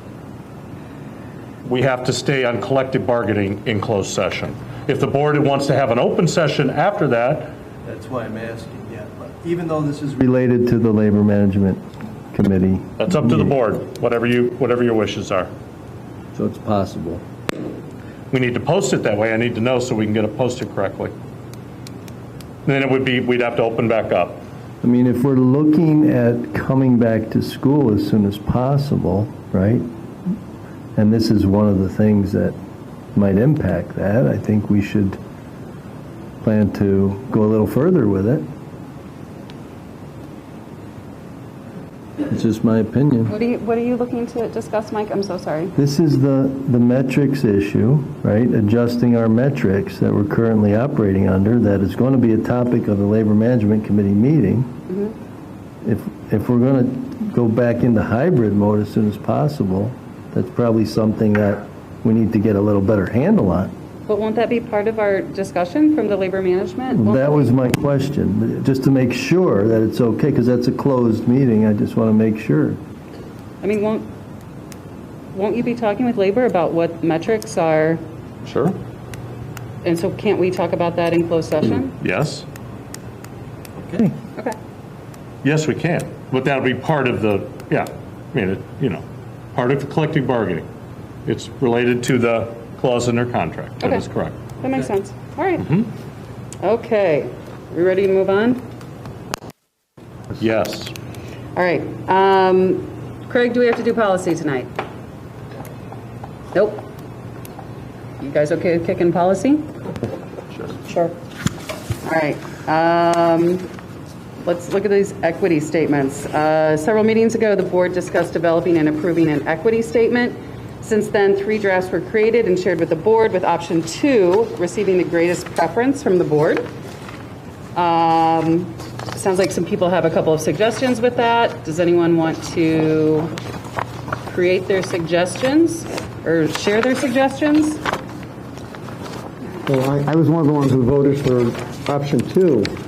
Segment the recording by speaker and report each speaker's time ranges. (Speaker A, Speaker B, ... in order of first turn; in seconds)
Speaker A: 1.6-7.5, 13.0-15.5, 18.3-21.1, 22.7-24.4, 78.4-78.8, 82.0-82.5, 85.4-90.7, 91.3-94.4, 95.6-95.9, 100.4-100.9
Speaker B: 7.8-13.5, 16.3-17.2, 24.8-29.9, 31.0-32.6, 33.1-35.2, 36.4-38.5, 42.2-43.3, 45.8-54.8, 55.8-63.7, 66.9-72.8, 83.8-84.1
Speaker C: 43.3-45.7, 64.1-67.6, 73.6-74.1, 75.3-78.0, 79.8-82.0, 94.6-95.8, 96.6-98.6, 101.6-104.7, 106.5-106.9, 108.2-109.7, 110.8-111.2, 112.0-113.7, 114.4-126.7, 127.8-133.3, 134.3-137.8
Speaker D: 139.7-142.7